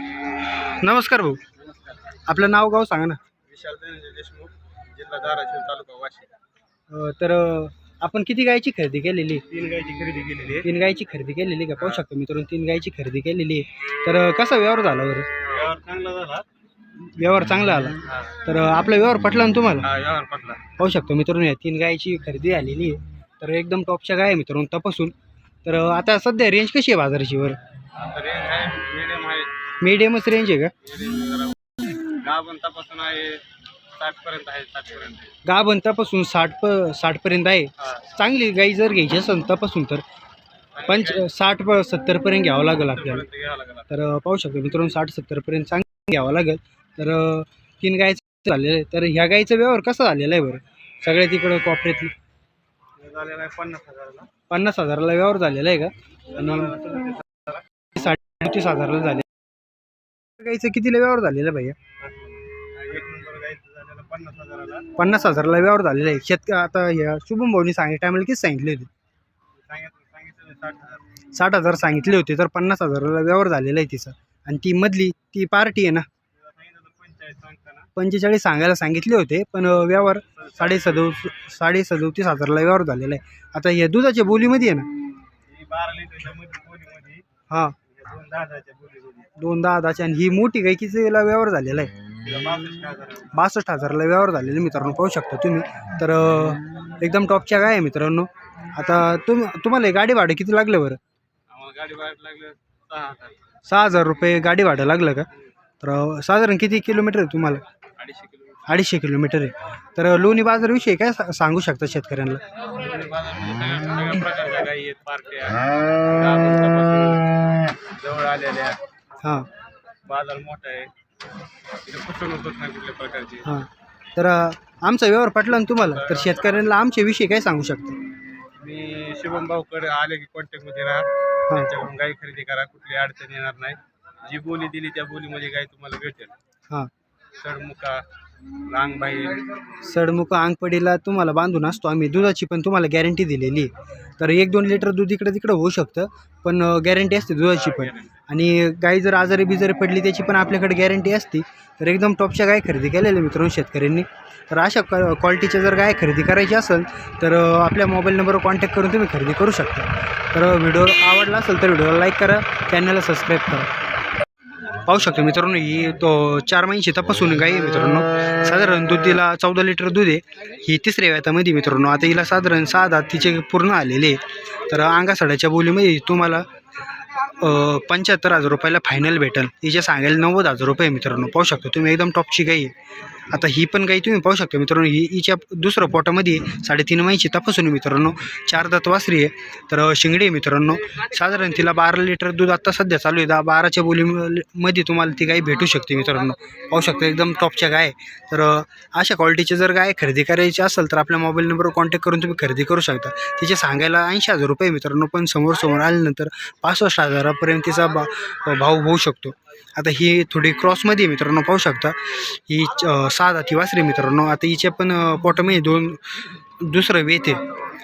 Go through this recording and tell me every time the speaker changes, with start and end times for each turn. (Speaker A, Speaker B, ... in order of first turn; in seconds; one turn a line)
Speaker A: 0.6-1.4
Speaker B: 1.6-1.9
Speaker A: 2.2-3.2
Speaker B: 3.5-6.3
Speaker A: 6.9-9.4
Speaker B: 9.5-10.7
Speaker A: 10.6-15.3
Speaker B: 15.4-16.5
Speaker A: 17.0-19.9
Speaker B: 18.1-18.3
Speaker B: 19.8-20.7
Speaker A: 20.8-25.1
Speaker A: 25.6-27.6
Speaker B: 27.9-29.5
Speaker A: 29.8-30.7
Speaker B: 30.8-35.4
Speaker A: 35.4-40.0
Speaker B: 40.8-41.3
Speaker A: 40.9-43.2
Speaker B: 42.8-43.9
Speaker A: 43.9-52.1
Speaker B: 53.0-54.3
Speaker A: 54.5-56.8
Speaker B: 56.3-57.6
Speaker A: 57.9-59.3
Speaker A: 60.4-61.8
Speaker B: 62.0-64.9
Speaker A: 65.0-68.9
Speaker B: 69.6-71.2
Speaker A: 71.3-76.1
Speaker B: 76.4-77.9
Speaker A: 78.0-84.9
Speaker B: 80.1-81.2
Speaker B: 85.5-87.2
Speaker A: 87.5-87.8
Speaker B: 87.8-89.3
Speaker A: 89.4-91.9
Speaker B: 92.2-93.3
Speaker A: 93.3-101.0
Speaker B: 101.5-103.4
Speaker A: 103.7-105.3
Speaker A: 105.8-107.6
Speaker B: 108.0-108.7
Speaker A: 108.7-112.4
Speaker B: 112.7-118.8
Speaker A: 119.2-119.5
Speaker B: 120.0-120.9
Speaker B: 121.8-123.5
Speaker A: 123.4-128.0
Speaker B: 125.8-126.7
Speaker B: 128.6-136.3
Speaker B: 137.4-138.0
Speaker B: 138.7-139.5
Speaker A: 139.8-163.7
Speaker B: 147.5-148.1
Speaker A: 164.8-176.4
Speaker A: 177.4-182.7
Speaker A: 183.3-217.4